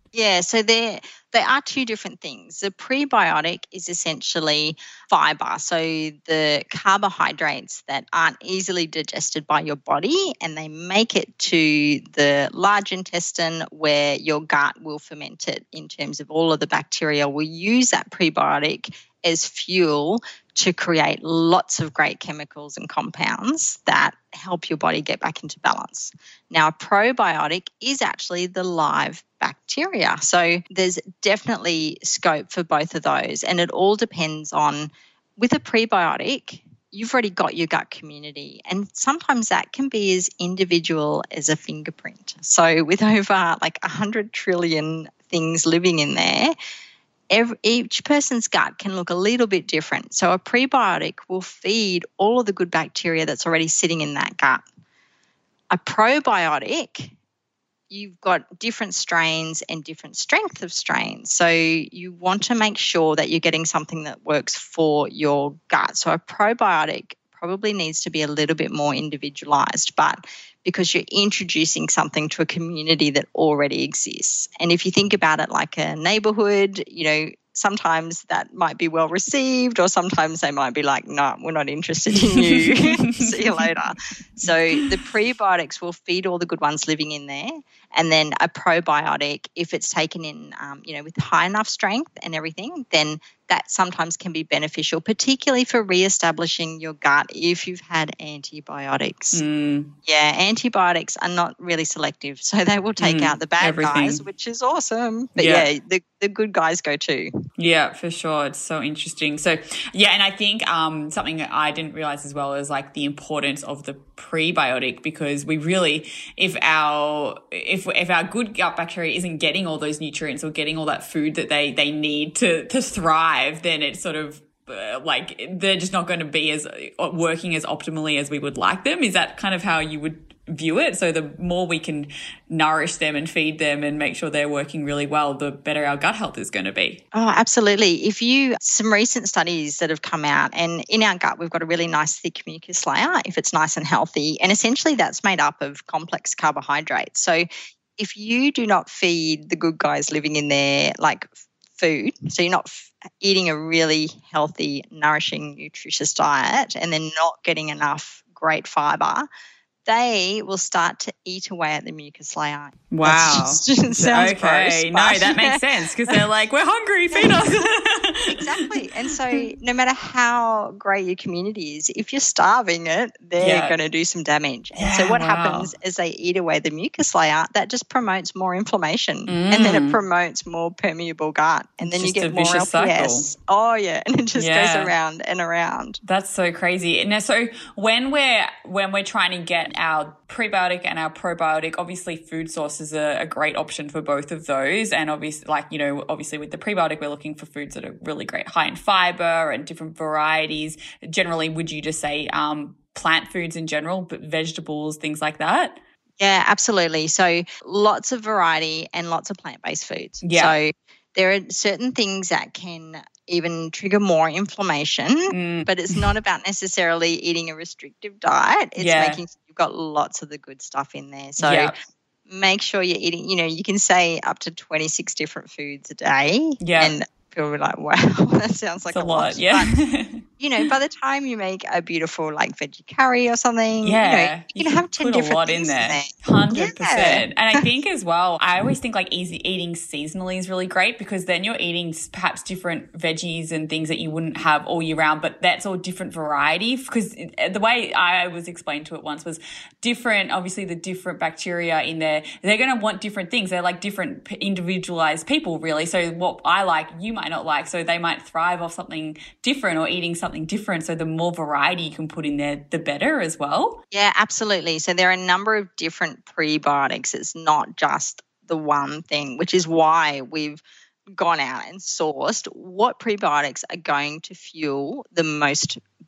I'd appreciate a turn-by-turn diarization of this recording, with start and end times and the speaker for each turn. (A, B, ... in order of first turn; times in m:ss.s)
0:00.1-0:46.5 A
0:47.3-0:54.6 A
0:55.7-0:57.2 A
0:57.9-1:39.4 A
1:22.1-1:23.7 B
1:39.3-1:39.9 B
1:40.0-1:47.3 A
1:43.0-1:44.2 B
1:45.4-1:45.7 B
1:47.6-2:17.0 B
2:17.1-2:27.4 A
2:28.0-2:39.3 A
2:39.9-2:46.2 A
2:42.9-2:48.8 B
2:47.1-2:47.6 A
2:48.3-3:06.0 A
2:53.4-2:53.8 B
2:54.8-2:55.7 B
2:59.3-3:00.0 B
3:01.8-3:03.3 B
3:04.4-3:04.9 B
3:06.0-3:25.8 B
3:26.2-3:41.7 A
3:30.2-3:30.6 B
3:35.3-3:36.1 B
3:38.8-3:39.2 B
3:41.4-3:41.8 B
3:42.3-3:49.7 A
3:46.6-3:46.9 B
3:48.9-3:50.7 B
3:50.4-3:57.3 A
3:53.8-4:23.8 B
4:23.9-4:35.8 A